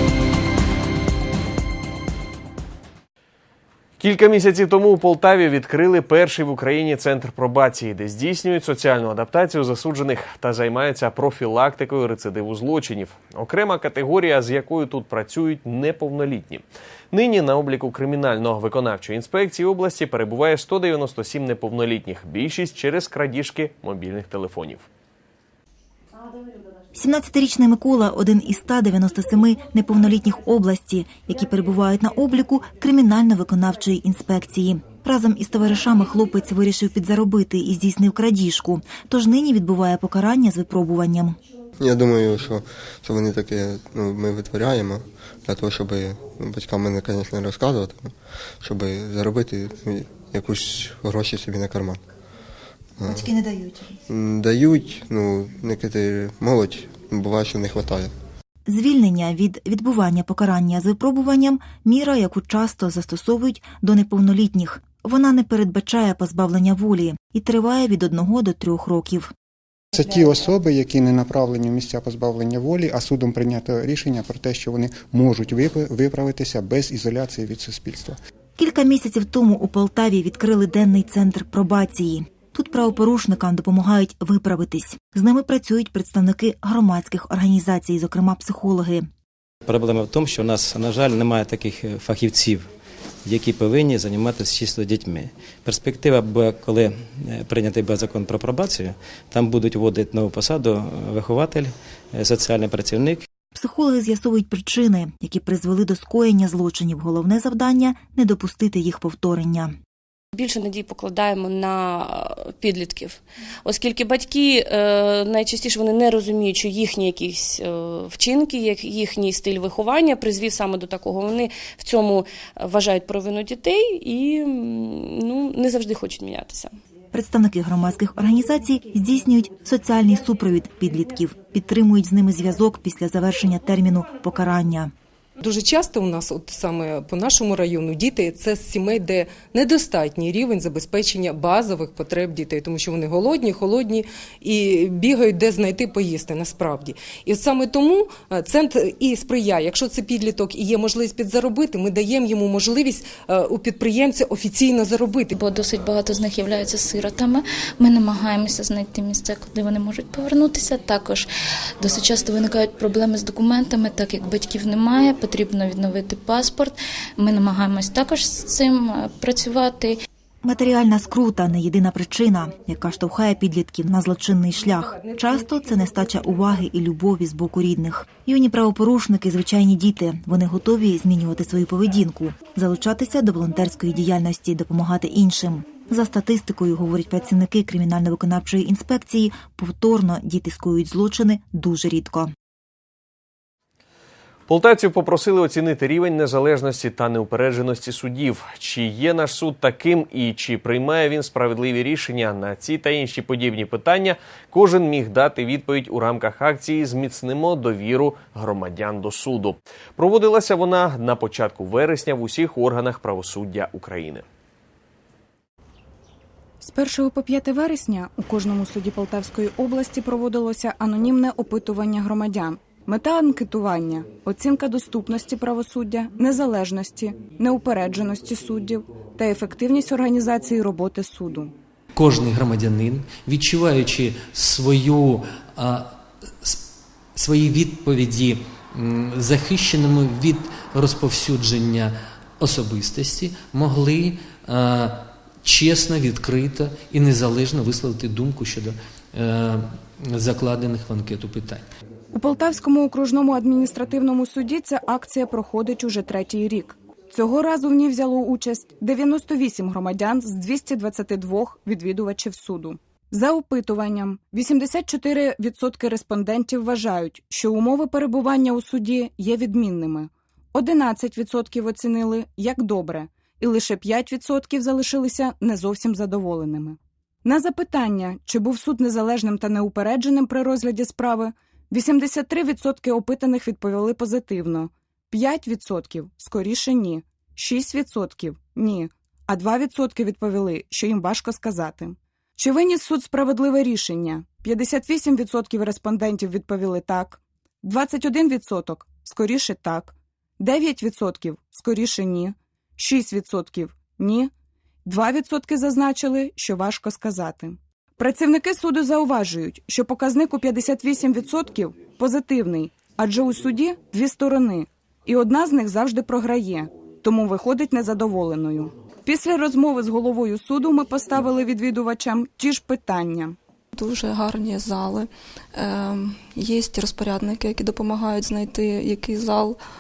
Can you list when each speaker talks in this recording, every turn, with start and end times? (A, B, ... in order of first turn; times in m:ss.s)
0:04.0-0:24.8 A
0:26.9-0:41.4 B
0:41.9-0:52.0 C
0:53.1-0:54.0 B
0:54.2-0:58.1 C
0:58.7-1:09.3 B
1:09.9-1:18.2 D
1:18.6-1:29.1 B
1:29.7-1:32.7 E
1:33.2-1:43.3 E
1:43.6-1:49.7 B
1:50.3-2:06.7 F
2:07.1-2:14.9 B
2:15.4-2:35.3 G
2:35.4-2:41.3 H
2:41.8-2:50.0 H
2:50.4-3:12.3 B
3:14.5-3:34.2 A
3:36.6-3:51.5 I
3:52.0-3:56.6 J
3:57.2-4:11.7 J
4:12.1-5:04.3 I
5:04.9-5:23.4 I
5:23.8-5:29.6 K